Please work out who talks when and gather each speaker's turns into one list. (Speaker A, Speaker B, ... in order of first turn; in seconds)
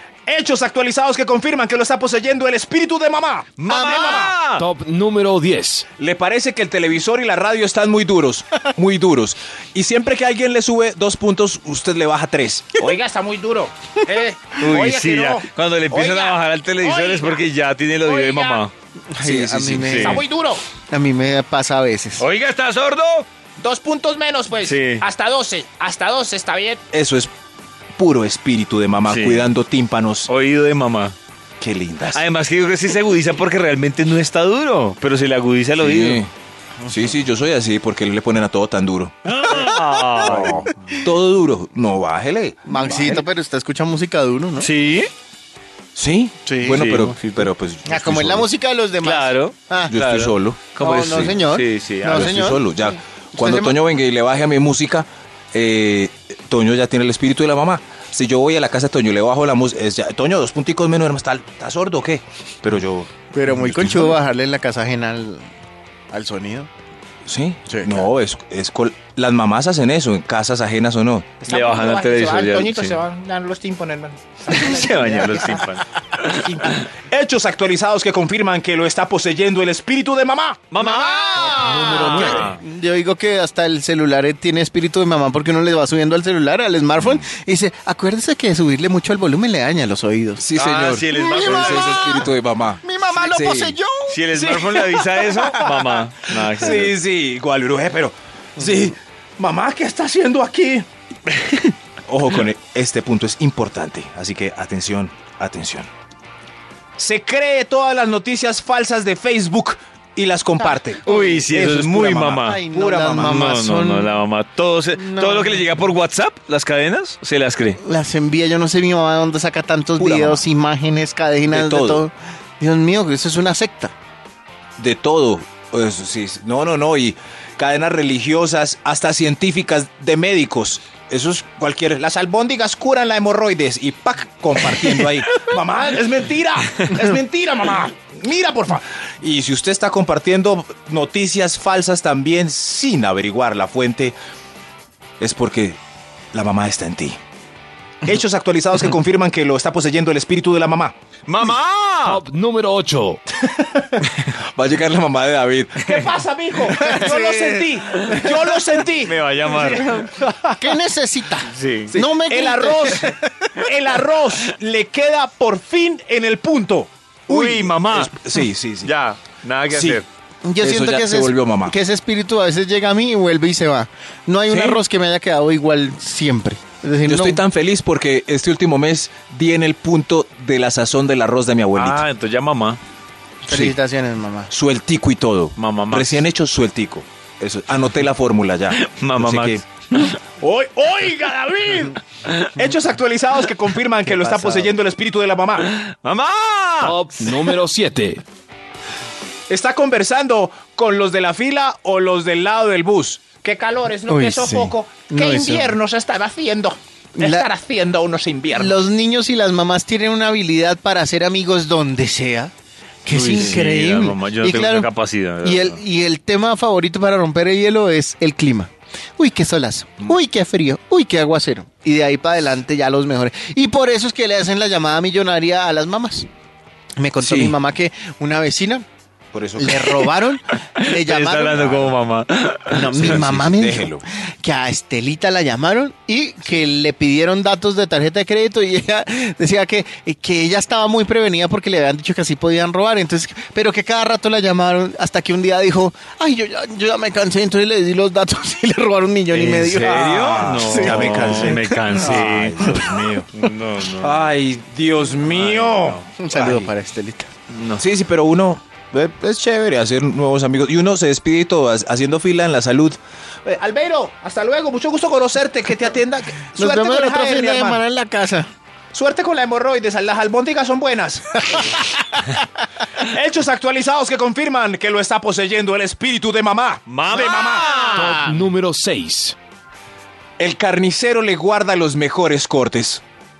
Speaker A: 0.3-4.3, 6.0-16.3, 16.9-17.3, 19.2-20.6, 23.6-24.6, 26.9-27.3, 28.0-30.3, 31.6-32.2, 35.8-36.3, 36.9-39.1, 40.2-43.2, 45.9-48.5, 49.9-51.4, 52.0-64.2, 67.2-75.3, 76.2-81.4, 87.0-87.3, 90.4-93.8, 94.3-94.8, 96.5-100.8, 102.1-105.9, 107.0-113.5, 120.0-120.4, 121.5-122.0, 124.8-144.2, 145.2-145.8, 146.3-147.2, 148.0-150.9, 153.4-160.8, 161.9-168.9, 169.7-170.0, 170.6-171.8, 174.5-174.8, 177.0-182.0, 183.5-183.7, 184.5-189.6, 190.4-192.0, 192.6-195.7, 199.5-208.8, 213.2-213.6, 227.2-227.6, 229.3-230.0, 231.6-231.8, 232.9-234.0, 249.7-253.3, 254.0-256.7, 257.8-267.8, 268.9-271.8, 273.0-277.8, 280.4-283.0
Speaker B: 3.6-4.6, 14.6-18.7, 19.8-20.2, 22.2-23.3, 24.6-25.1, 29.1-29.5, 30.3-31.1, 32.1-36.2, 39.2-40.6, 42.8-43.2, 44.6-45.1, 46.6-47.5, 49.0-52.4, 71.5-73.0, 74.5-76.9, 80.7-82.6, 90.5-92.2, 94.1-97.0, 101.3-101.7, 111.0-112.6, 113.2-117.8, 151.3-152.2, 155.8-156.2, 156.7-157.1, 157.9-158.3, 158.9-159.9, 161.4-161.9, 167.3-168.2, 168.8-170.1, 181.7-182.8, 185.6-186.2, 188.7-190.2, 195.7-197.0, 213.1-215.8, 230.8-233.2, 249.3-254.3, 255.2-256.1, 257.5-257.9, 276.9-278.2
Speaker C: 3.7-4.3, 19.1-20.2, 20.9-22.2, 39.5-41.0, 42.6-44.7, 46.5-46.8, 47.8-49.9, 50.8-53.8, 63.3-65.5, 66.1-66.7, 67.7-68.1, 75.0-75.6, 80.8-90.5, 91.1-92.3, 92.8-94.2, 94.8-95.8, 111.0-111.4, 112.4-114.1, 114.9-115.7, 117.8-123.9, 156.7-158.3, 159.5-163.2, 170.4-177.4, 183.4-184.5, 194.2-194.7, 204.1-205.8, 207.2-207.5, 208.5-212.5, 213.0-214.9, 215.4-226.3, 227.0-228.8, 229.6-231.9, 232.7-252.8, 256.2-257.3, 266.5-268.5, 271.5-272.4, 277.1-278.4
Speaker D: 4.5-5.9, 81.3-82.5, 152.0-153.2, 196.8-198.2, 277.9-279.4
Speaker E: 12.9-13.5, 16.9-17.3, 18.1-18.6, 20.1-20.6, 23.6-26.8, 71.5-72.0